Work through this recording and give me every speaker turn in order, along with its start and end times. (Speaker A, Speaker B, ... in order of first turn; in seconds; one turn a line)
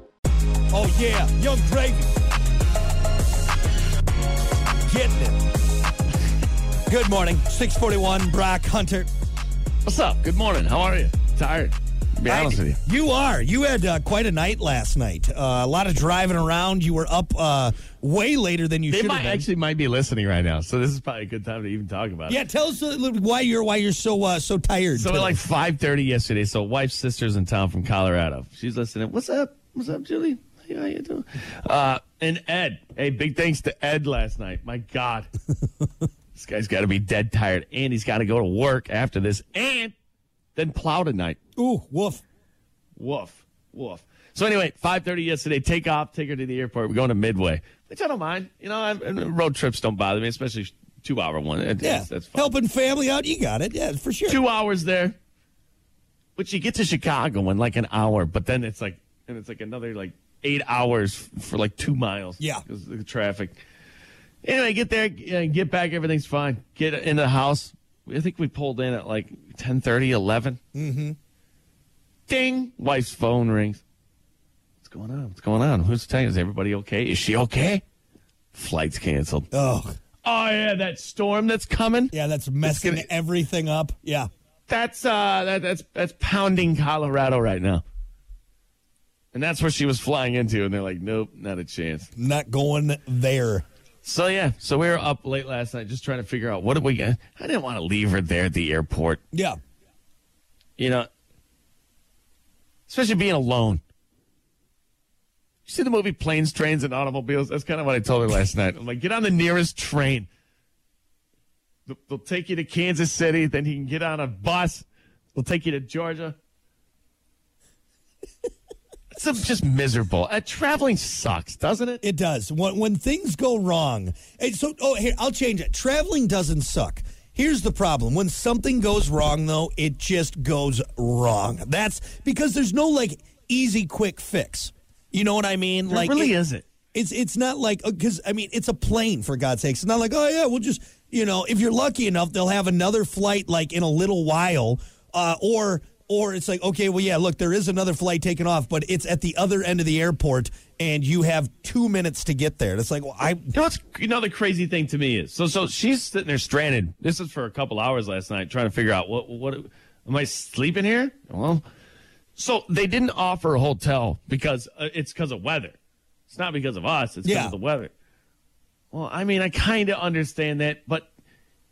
Speaker A: 0.7-2.2
Speaker A: 4.8-5.4
Speaker A: 6.9-9.1
Speaker B: 9.8-12.8
Speaker A: 12.3-19.5
Speaker B: 18.9-22.4
Speaker A: 22.3-25.4
Speaker B: 24.9-35.3
Speaker B: 36.3-39.9
Speaker B: 40.5-41.4
Speaker A: 41.6-42.2
Speaker B: 43.0-52.5
Speaker A: 51.8-54.4
Speaker B: 54.3-55.1
Speaker B: 56.4-63.6
Speaker B: 64.4-70.6
Speaker A: 70.7-71.2
Speaker B: 72.3-73.8
Speaker B: 74.8-77.8
Speaker B: 78.5-79.5
Speaker A: 79.5-80.0
Speaker B: 80.2-83.1
Speaker A: 82.1-84.3
Speaker B: 84.7-87.8
Speaker B: 89.3-92.1
Speaker A: 92.2-93.6
Speaker B: 94.0-99.2
Speaker A: 99.3-99.6
Speaker B: 100.8-101.1
Speaker B: 102.9-103.8
Speaker B: 105.7-110.3
Speaker B: 111.9-116.3
Speaker B: 119.1-122.0
Speaker A: 122.0-136.3
Speaker B: 135.9-136.6
Speaker A: 136.9-153.5
Speaker B: 153.5-161.6
Speaker B: 162.3-165.8
Speaker B: 166.3-167.9
Speaker A: 167.2-167.5
Speaker B: 168.9-171.1